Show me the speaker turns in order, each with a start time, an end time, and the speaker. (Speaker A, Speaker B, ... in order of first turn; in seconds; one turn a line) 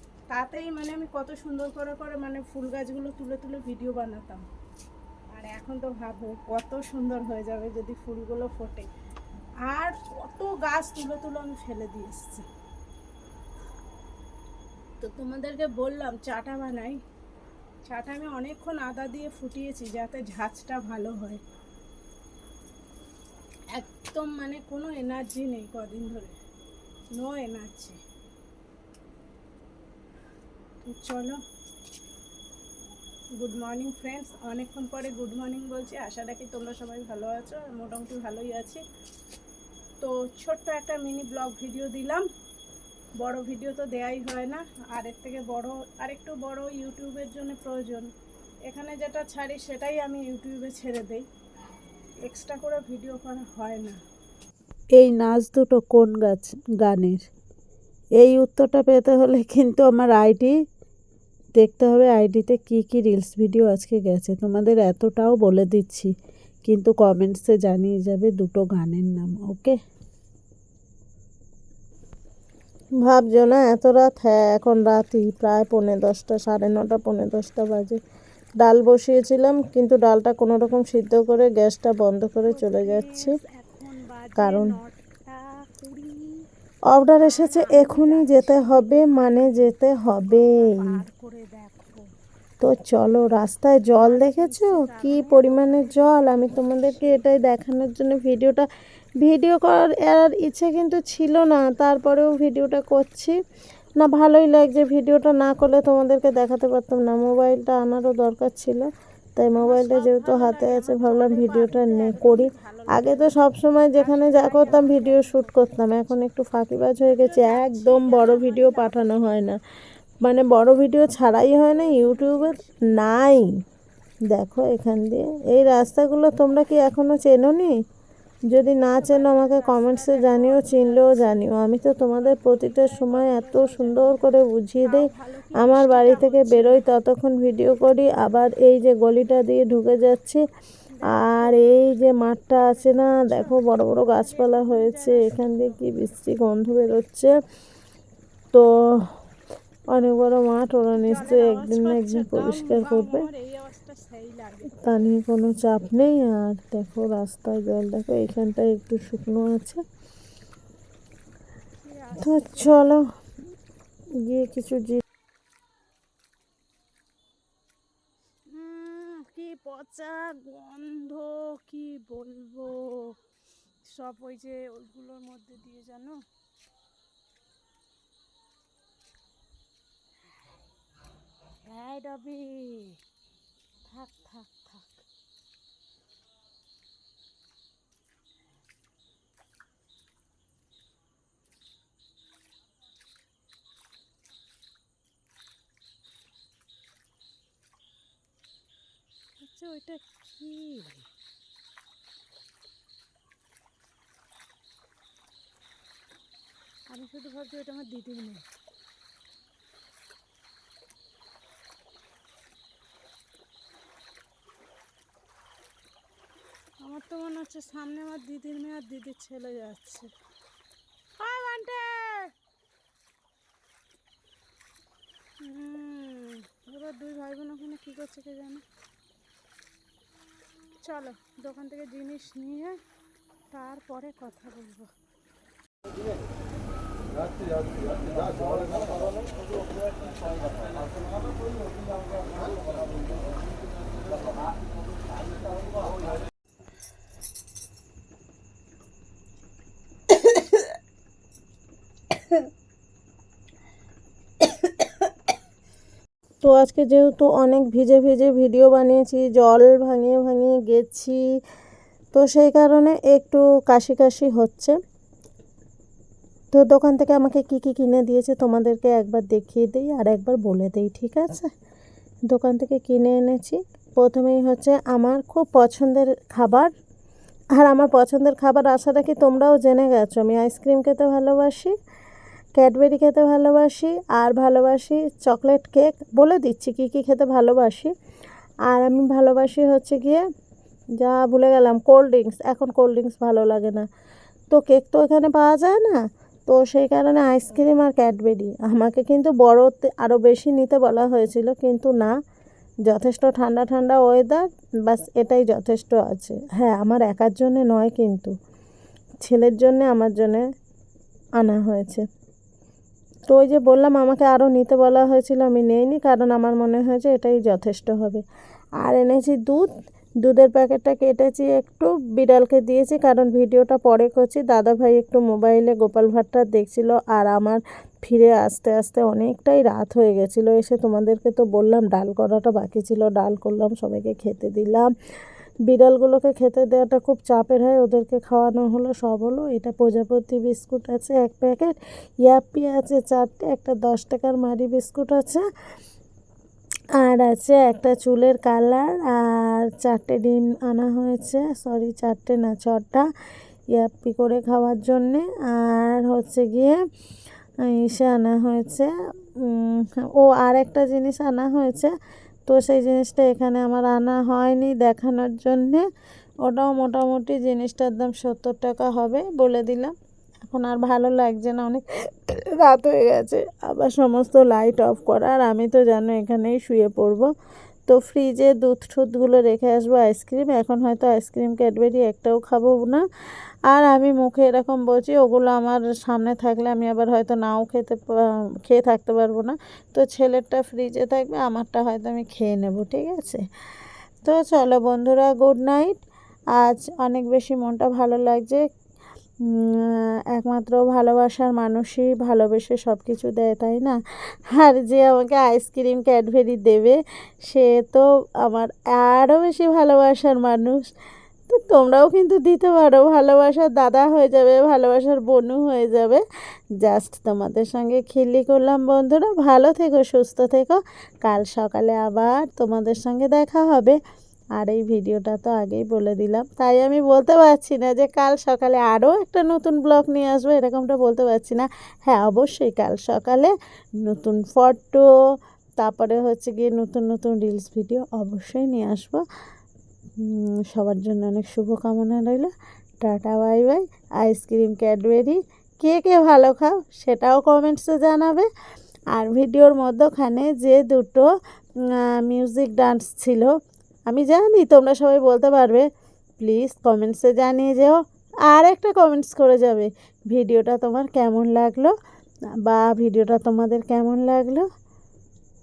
Speaker A: 0.3-4.5
Speaker A: 5.3-8.9
Speaker A: 9.7-12.5
Speaker A: 15.0-17.0
Speaker A: 17.9-21.4
Speaker A: 23.7-26.4
Speaker A: 27.1-28.0
Speaker A: 30.8-31.4
Speaker A: 33.4-38.8
Speaker A: 40.0-42.3
Speaker A: 43.2-48.1
Speaker A: 48.7-51.3
Speaker A: 52.2-54.0
Speaker B: 55.0-57.3
Speaker B: 58.2-60.6
Speaker B: 61.6-66.1
Speaker B: 66.6-69.8
Speaker B: 73.0-78.0
Speaker B: 78.6-83.3
Speaker A: 82.5-86.5
Speaker B: 84.4-84.8
Speaker B: 86.9-91.0
Speaker A: 87.1-92.0
Speaker B: 92.6-98.7
Speaker A: 94.0-97.2
Speaker B: 99.2-103.4
Speaker B: 104.0-119.6
Speaker A: 109.6-113.4
Speaker A: 113.9-116.2
Speaker A: 117.0-119.2
Speaker B: 120.2-123.5
Speaker A: 121.7-122.9
Speaker B: 124.3-127.8
Speaker B: 128.5-140.4
Speaker A: 128.9-136.8
Speaker A: 140.9-145.8
Speaker B: 141.1-147.3
Speaker B: 148.5-149.1
Speaker B: 149.9-153.3
Speaker A: 151.0-155.0
Speaker B: 154.8-159.8
Speaker A: 161.8-162.9
Speaker B: 162.2-163.0
Speaker B: 164.2-165.0
Speaker A: 168.5-173.2
Speaker A: 173.9-176.2
Speaker A: 181.7-183.0
Speaker A: 183.9-185.0
Speaker A: 199.4-201.1
Speaker A: 206.9-208.4
Speaker A: 216.8-220.1
Speaker A: 221.2-222.3
Speaker A: 225.4-228.6
Speaker A: 230.8-232.8
Speaker A: 233.5-234.9
Speaker B: 256.4-261.2
Speaker B: 262.1-264.8
Speaker B: 266.5-271.5
Speaker B: 272.3-276.7
Speaker B: 277.6-281.7
Speaker B: 282.6-287.9
Speaker B: 288.7-290.2
Speaker B: 291.0-293.9
Speaker B: 294.5-302.1
Speaker B: 302.9-308.3
Speaker B: 309.2-310.4
Speaker B: 311.4-312.1
Speaker B: 313.3-318.2
Speaker B: 318.8-319.7
Speaker B: 320.2-334.9
Speaker B: 335.7-345.4
Speaker B: 347.0-353.1
Speaker B: 353.7-356.8
Speaker B: 357.6-361.9
Speaker B: 362.5-365.9
Speaker B: 366.4-369.9
Speaker B: 370.4-377.3
Speaker B: 377.9-383.0
Speaker B: 383.7-393.4
Speaker B: 394.2-395.9
Speaker B: 396.5-398.6
Speaker B: 399.4-404.0
Speaker B: 404.5-410.8
Speaker B: 411.5-416.2
Speaker B: 416.8-424.0
Speaker B: 424.6-435.1
Speaker B: 435.8-439.2
Speaker B: 440.2-448.5
Speaker B: 449.1-451.3
Speaker B: 452.1-453.5
Speaker B: 454.1-455.9
Speaker B: 456.4-461.9
Speaker B: 462.7-464.7